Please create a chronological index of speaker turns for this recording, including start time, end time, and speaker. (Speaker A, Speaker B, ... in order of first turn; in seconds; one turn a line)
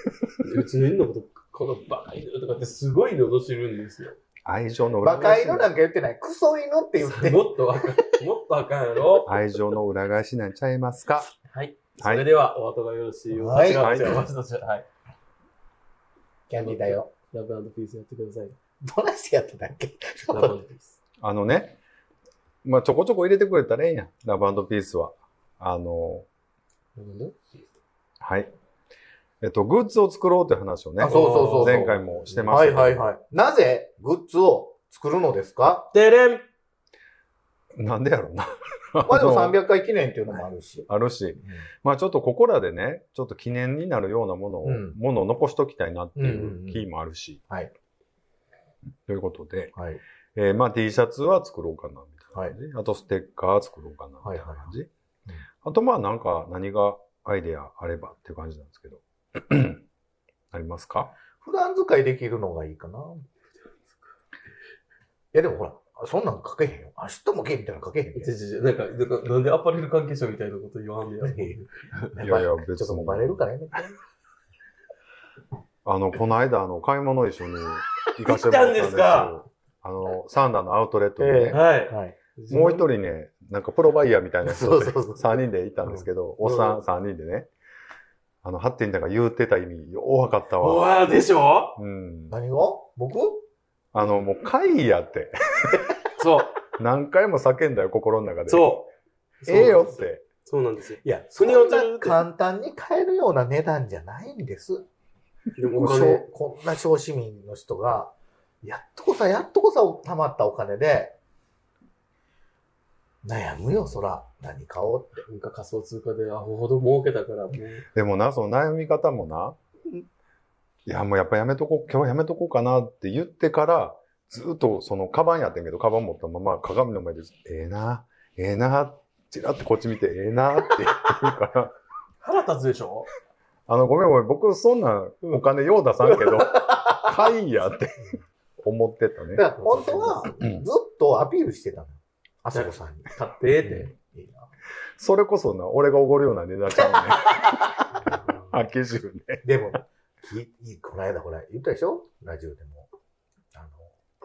Speaker A: 0.3-4.2
Speaker B: 4.5-5.7
Speaker C: 5.0-7.8
Speaker A: 7.0-9.3
Speaker B: 9.2-11.3
Speaker A: 11.5-14.8
Speaker B: 12.0-12.3
Speaker C: 13.3-14.0
Speaker B: 13.6-14.2
Speaker C: 16.5-17.1
Speaker A: 16.6-18.5
Speaker C: 18.8-20.5
Speaker A: 20.3-21.0
Speaker B: 21.2-21.8
Speaker B: 22.6-26.2
Speaker A: 26.9-27.7
Speaker B: 28.2-28.5
Speaker B: 29.4-33.1
Speaker C: 31.0-35.9
Speaker A: 31.0-32.5
Speaker A: 35.9-36.4
Speaker B: 37.7-39.6
Speaker C: 39.0-40.9
Speaker B: 40.9-47.4
Speaker C: 44.6-45.0
Speaker C: 46.1-46.8
Speaker B: 49.1-49.7
Speaker C: 49.8-50.0
Speaker B: 50.3-54.9
Speaker C: 54.2-54.7
Speaker B: 55.6-59.8
Speaker B: 60.5-61.1
Speaker C: 61.4-63.2
Speaker C: 65.3-68.3
Speaker A: 68.1-72.1
Speaker C: 71.2-71.5
Speaker C: 72.2-74.0
Speaker B: 72.2-73.4
Speaker B: 75.8-81.6
Speaker A: 78.2-79.4
Speaker A: 81.2-82.9
Speaker C: 81.4-82.2
Speaker B: 82.5-87.5
Speaker C: 84.4-86.8
Speaker B: 88.4-90.8
Speaker A: 90.6-91.8
Speaker B: 91.8-92.4
Speaker C: 92.3-93.4
Speaker B: 93.9-95.8
Speaker A: 96.2-96.6
Speaker B: 96.8-98.9
Speaker A: 98.5-98.9
Speaker A: 99.4-102.2
Speaker B: 99.5-100.2
Speaker C: 101.0-104.8
Speaker A: 105.5-106.3
Speaker C: 105.7-111.2
Speaker C: 113.2-115.2
Speaker A: 115.3-117.8
Speaker B: 117.9-119.5
Speaker B: 120.8-131.7
Speaker A: 132.2-133.1
Speaker B: 133.7-140.7
Speaker C: 136.1-137.1
Speaker C: 139.3-143.1
Speaker A: 142.5-143.9
Speaker C: 143.6-144.5
Speaker B: 145.0-147.8
Speaker B: 148.5-149.4
Speaker C: 149.4-152.9
Speaker C: 153.5-153.9